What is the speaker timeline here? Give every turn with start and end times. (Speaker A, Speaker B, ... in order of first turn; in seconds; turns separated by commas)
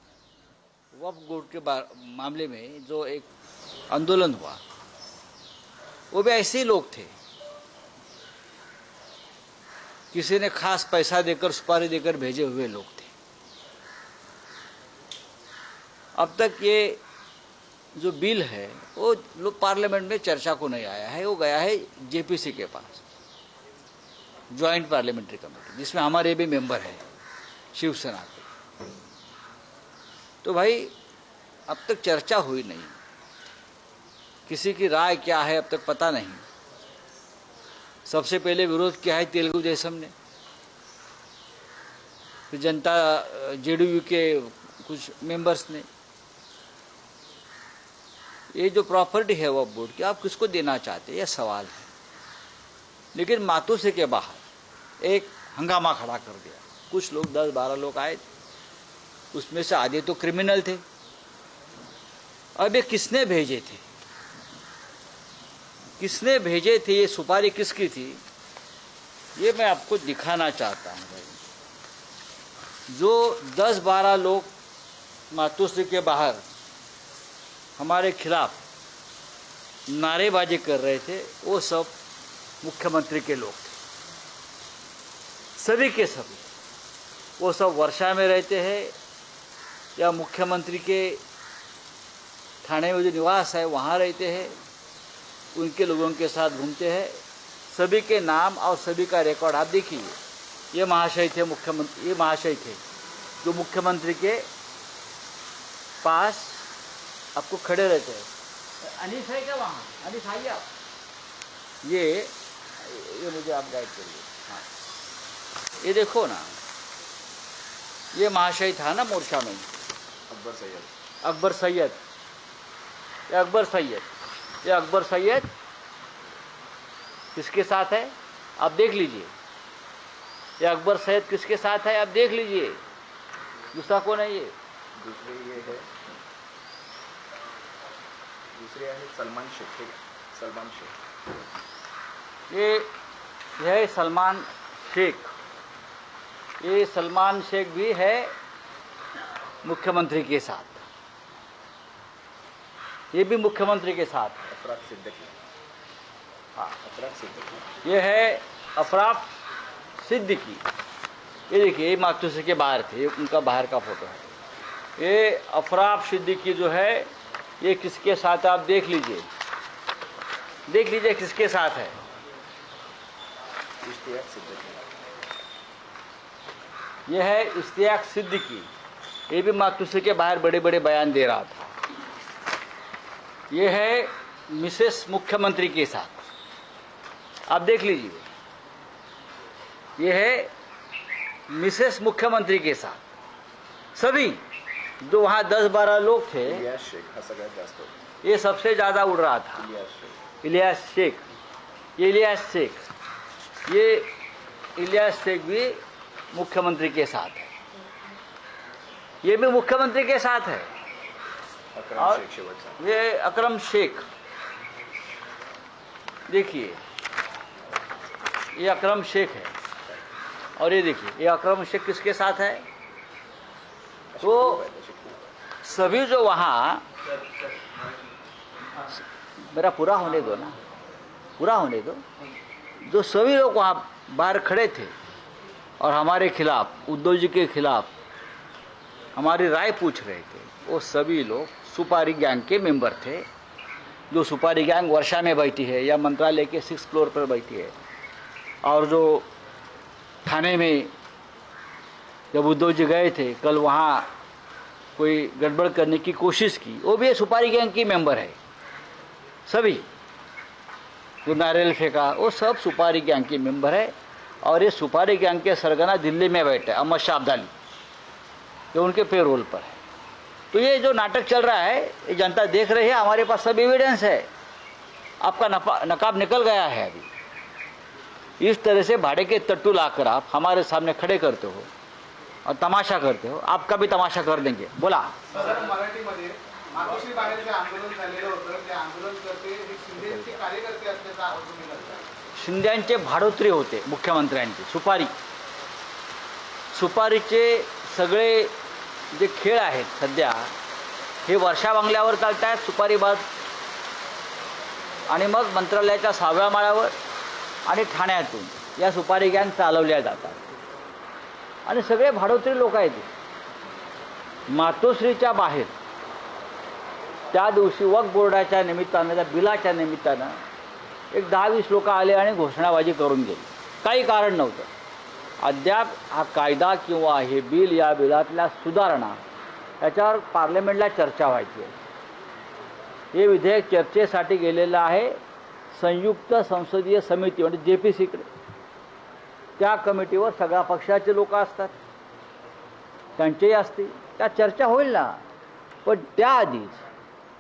Speaker A: 0.9-3.3, Speaker A: 3.9-4.6, Speaker A: 6.1-7.1, Speaker A: 10.1-13.1, Speaker A: 16.2-17.0, Speaker A: 17.9-23.0, Speaker A: 24.5-27.0, Speaker A: 27.7-28.5, Speaker A: 30.4-30.9, Speaker A: 31.7-33.0, Speaker A: 34.5-36.4, Speaker A: 38.1-40.1, Speaker A: 42.5-45.9, Speaker A: 48.5-51.9, Speaker A: 53.1-54.4, Speaker A: 55.0-58.2, Speaker A: 59.3-60.8, Speaker A: 62.6-63.8, Speaker A: 66.0-68.2, Speaker A: 69.4-71.4, Speaker A: 72.9-74.5, Speaker A: 75.3-76.4, Speaker A: 77.8-78.6, Speaker A: 79.9-81.9, Speaker A: 82.6-83.8, Speaker A: 85.6-86.5, Speaker A: 87.4-88.9, Speaker A: 90.0-91.2, Speaker A: 92.6-94.6, Speaker A: 95.5-97.2, Speaker A: 97.7-100.2, Speaker A: 100.7-102.8, Speaker A: 103.4-104.5, Speaker A: 106.0-106.7, Speaker A: 107.3-108.3, Speaker A: 108.8-110.7, Speaker A: 111.8-114.6, Speaker A: 115.8-116.5, Speaker A: 118.1-119.7, Speaker B: 120.3-120.9, Speaker A: 121.2-122.0, Speaker A: 123.3-124.1, Speaker A: 124.6-125.5, Speaker A: 127.3-129.3, Speaker A: 130.6-132.8, Speaker A: 133.7-134.5, Speaker B: 135.0-135.9, Speaker B: 138.6-140.9, Speaker A: 142.5-142.9, Speaker A: 143.6-145.3, Speaker A: 146.6-148.3, Speaker A: 149.6-150.8, Speaker A: 153.1-154.4, Speaker B: 154.5-155.4, Speaker B: 156.8-157.7, Speaker A: 157.8-159.3, Speaker A: 160.0-160.6, Speaker A: 161.5-164.3, Speaker A: 165.0-167.1, Speaker A: 167.6-169.3, Speaker A: 170.7-172.0, Speaker B: 173.8-174.9, Speaker A: 177.1-178.7, Speaker A: 179.3-181.7, Speaker A: 183.5-186.2, Speaker A: 187.5-188.2, Speaker A: 190.0-190.5, Speaker A: 191.5-193.0, Speaker A: 193.9-194.4, Speaker A: 195.0-196.7, Speaker B: 196.4-197.9, Speaker A: 198.2-199.6, Speaker B: 199.6-200.2, Speaker A: 200.4-201.2, Speaker A: 202.0-202.8, Speaker A: 203.7-204.1, Speaker A: 204.8-205.8, Speaker A: 206.3-207.5, Speaker A: 209.2-210.7, Speaker B: 211.8-212.8, Speaker A: 212.0-212.2, Speaker A: 212.8-214.0, Speaker A: 216.3-216.8, Speaker A: 218.6-219.5, Speaker A: 220.6-222.7, Speaker B: 224.1-225.2, Speaker A: 224.2-224.6, Speaker A: 225.6-226.8, Speaker A: 228.9-230.6, Speaker A: 231.4-232.0, Speaker A: 232.8-234.9, Speaker A: 235.8-237.9, Speaker A: 239.2-243.3, Speaker A: 244.1-247.7, Speaker A: 248.6-249.3, Speaker A: 250.2-250.9, Speaker A: 252.3-254.1, Speaker A: 255.0-258.4, Speaker A: 259.5-259.9, Speaker A: 261.2-267.5, Speaker A: 268.7-269.8, Speaker A: 270.5-274.3, Speaker A: 275.2-277.1, Speaker A: 278.4-281.7, Speaker A: 282.5-285.2, Speaker C: 285.3-292.0, Speaker A: 292.4-295.1, Speaker A: 296.7-298.5, Speaker A: 299.1-300.5, Speaker A: 301.3-303.3, Speaker A: 305.1-306.9, Speaker A: 307.7-310.4, Speaker A: 311.7-313.1, Speaker A: 314.5-315.7, Speaker A: 317.3-320.4, Speaker A: 321.1-324.7, Speaker A: 325.4-329.2, Speaker A: 329.8-331.7, Speaker A: 333.1-335.2, Speaker A: 335.7-338.3, Speaker A: 339.6-341.7, Speaker A: 343.2-345.2, Speaker A: 345.9-346.8